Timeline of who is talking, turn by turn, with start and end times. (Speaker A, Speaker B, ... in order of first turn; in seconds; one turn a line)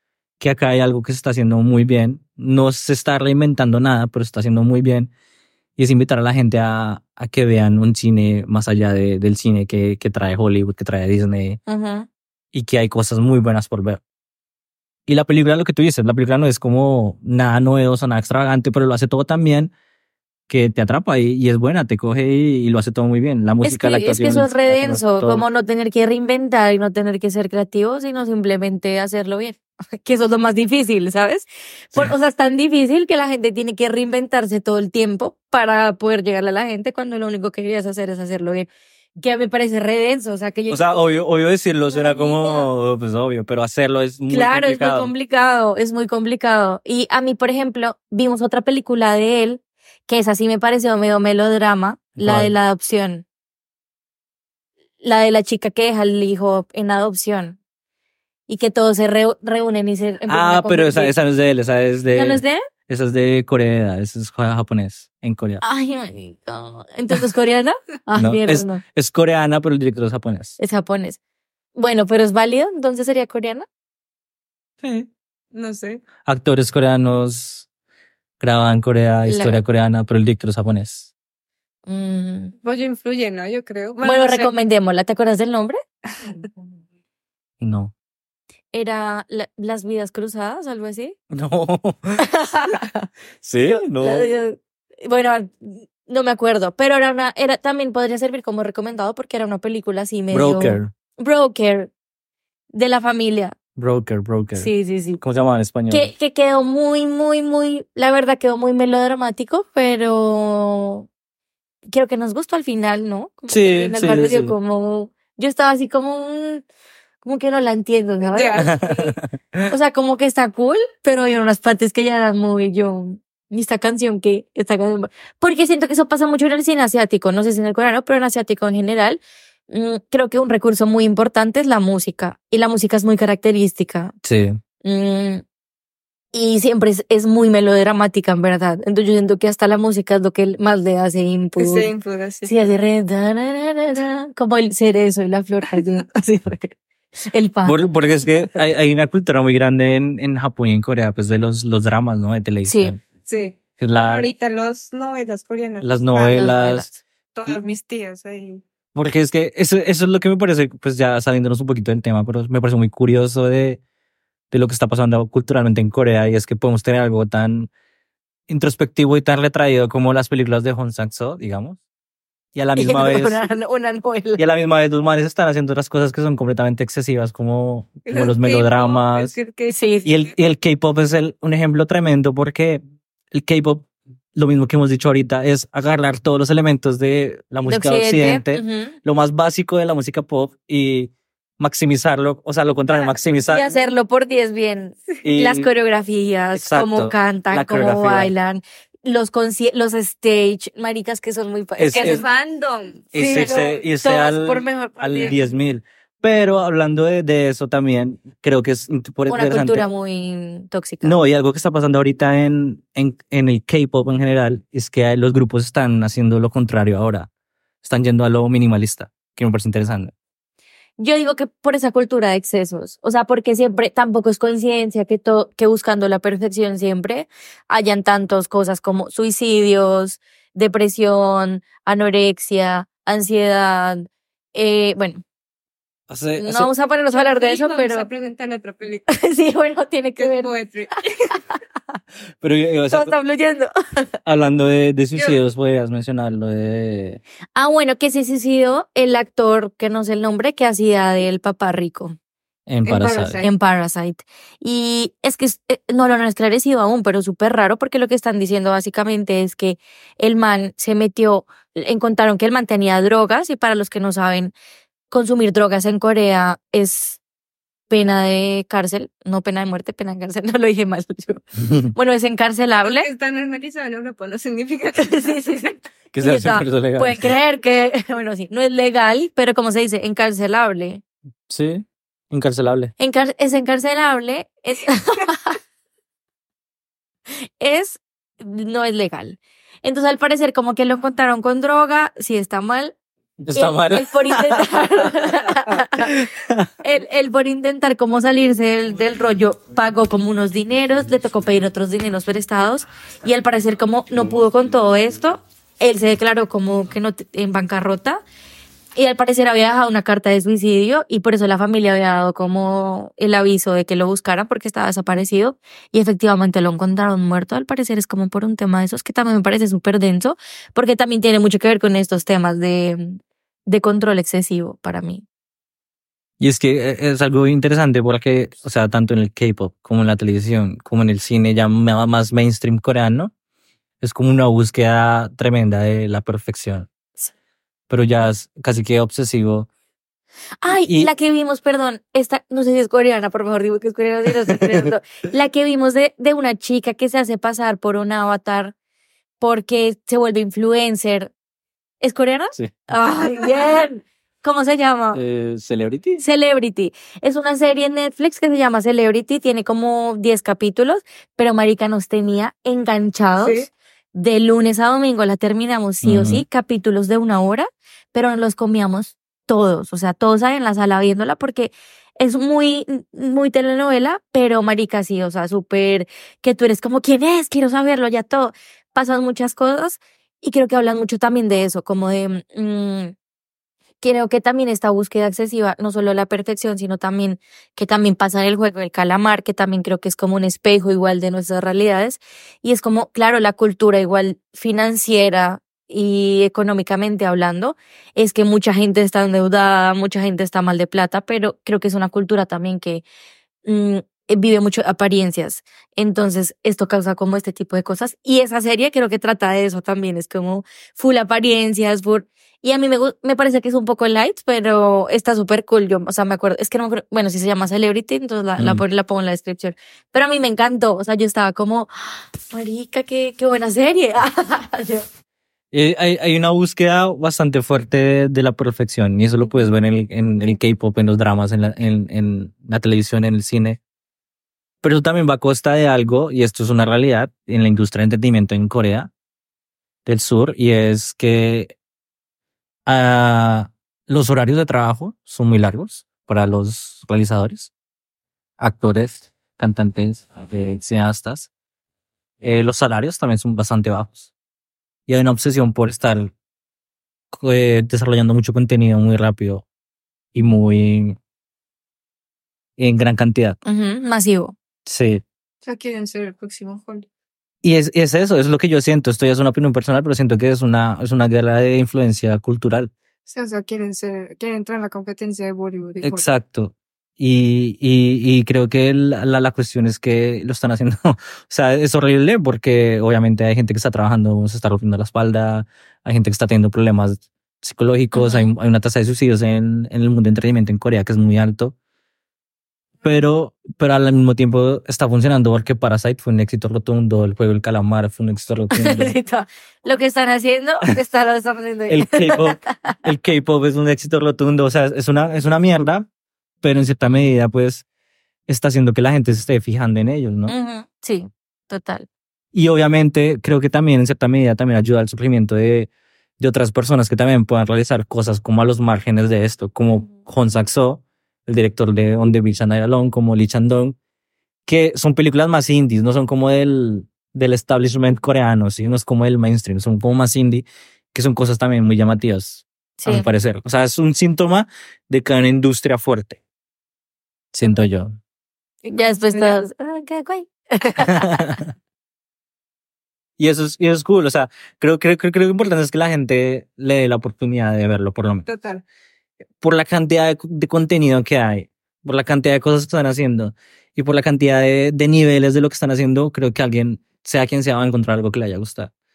Speaker A: 0.4-5.1
Speaker A: 5.8-11.6
Speaker B: 11.7-12.1
Speaker A: 12.5-14.0
Speaker A: 15.1-19.7
Speaker A: 20.5-25.4
Speaker B: 23.6-41.0
Speaker A: 40.7-45.1
Speaker B: 41.9-42.7
Speaker B: 44.3-53.2
Speaker A: 52.2-52.5
Speaker B: 55.0-57.6
Speaker B: 58.5-61.1
Speaker A: 60.3-65.6
Speaker B: 62.1-62.6
Speaker B: 65.6-68.8
Speaker A: 68.2-70.6
Speaker B: 70.6-71.2
Speaker B: 71.8-73.7
Speaker A: 74.8-75.1
Speaker C: 75.5-76.0
Speaker A: 76.2-77.7
Speaker A: 78.4-81.1
Speaker B: 79.3-79.6
Speaker B: 81.9-82.5
Speaker C: 82.6-84.5
Speaker B: 84.0-85.8
Speaker A: 87.6-87.9
Speaker B: 88.7-91.2
Speaker A: 91.3-92.2
Speaker B: 92.2-93.1
Speaker A: 93.4-94.3
Speaker B: 94.0-101.9
Speaker A: 100.3-100.9
Speaker B: 102.7-103.5
Speaker A: 103.8-106.1
Speaker B: 104.6-105.2
Speaker B: 105.9-111.1
Speaker B: 111.9-116.7
Speaker A: 113.5-114.5
Speaker B: 117.2-119.2
Speaker C: 118.3-118.9
Speaker A: 118.6-119.7
Speaker B: 119.7-134.1
Speaker A: 134.2-134.6
Speaker B: 134.8-135.4
Speaker B: 136.3-141.9
Speaker C: 141.6-142.5
Speaker B: 142.4-147.8
Speaker A: 147.7-153.0
Speaker B: 152.7-152.9
Speaker C: 153.3-156.6
Speaker A: 153.8-154.3
Speaker A: 155.8-156.9
Speaker B: 156.3-157.0
Speaker C: 157.3-158.6
Speaker A: 158.9-163.8
Speaker A: 164.5-167.7
Speaker A: 168.5-171.8
Speaker A: 172.6-173.4
Speaker B: 172.8-174.4
Speaker A: 174.4-179.3
Speaker C: 178.1-180.1
Speaker B: 179.7-180.1
Speaker A: 180.1-182.8
Speaker A: 183.3-193.7
Speaker B: 187.7-189.0
Speaker B: 193.5-202.2
Speaker A: 195.2-195.7
Speaker A: 196.6-198.3
Speaker A: 201.8-202.2
Speaker C: 201.9-203.8
Speaker A: 203.1-209.9
Speaker B: 203.2-205.5
Speaker B: 209.3-211.2
Speaker A: 211.0-217.3
Speaker A: 217.8-220.1
Speaker B: 221.0-235.2
Speaker A: 236.1-236.7
Speaker B: 236.4-238.1
Speaker C: 237.1-239.1
Speaker B: 239.1-240.5
Speaker C: 240.2-241.4
Speaker A: 242.4-243.2
Speaker B: 242.9-243.7
Speaker A: 244.3-247.2
Speaker B: 247.6-252.2
Speaker A: 252.7-253.4
Speaker C: 252.9-253.5
Speaker B: 253.4-264.6
Speaker B: 265.1-267.2
Speaker B: 267.9-273.1
Speaker C: 272.8-275.4
Speaker B: 275.0-281.0
Speaker A: 276.1-277.3
Speaker A: 281.5-282.9
Speaker B: 283.0-285.6
Speaker B: 287.4-292.9
Speaker A: 293.4-295.1
Speaker B: 293.5-296.1
Speaker A: 296.0-296.7
Speaker B: 296.8-308.2
Speaker B: 309.0-325.2
Speaker A: 326.4-333.3
Speaker A: 334.0-336.9
Speaker A: 337.9-339.7
Speaker B: 340.6-348.7
Speaker A: 340.9-341.1
Speaker B: 349.4-351.3
Speaker B: 352.0-355.2
Speaker A: 355.1-356.2
Speaker B: 356.2-383.1
Speaker C: 363.4-363.7
Speaker A: 366.0-366.4
Speaker B: 384.0-403.0
Speaker B: 403.6-425.1
Speaker A: 425.7-433.8
Speaker A: 434.8-439.1
Speaker A: 440.1-441.7
Speaker A: 442.9-447.7
Speaker A: 448.6-451.5
Speaker A: 452.4-454.3
Speaker A: 455.1-456.3
Speaker A: 457.3-459.6
Speaker A: 460.3-461.2
Speaker A: 462.8-463.6
Speaker B: 463.6-464.6
Speaker A: 464.9-465.2
Speaker C: 465.6-467.1
Speaker A: 467.6-472.9
Speaker C: 473.3-476.3
Speaker A: 476.0-491.7
Speaker B: 488.1-488.5
Speaker A: 493.0-499.1
Speaker B: 498.7-503.0
Speaker A: 501.9-506.1
Speaker A: 506.6-507.8
Speaker A: 508.5-510.5
Speaker B: 510.5-512.1
Speaker A: 512.5-524.0
Speaker A: 524.7-536.4
Speaker B: 533.0-533.3
Speaker A: 537.5-538.1
Speaker C: 538.9-539.6
Speaker B: 538.9-541.6
Speaker A: 541.0-541.6
Speaker A: 543.4-548.5
Speaker C: 548.5-548.8
Speaker A: 549.6-558.9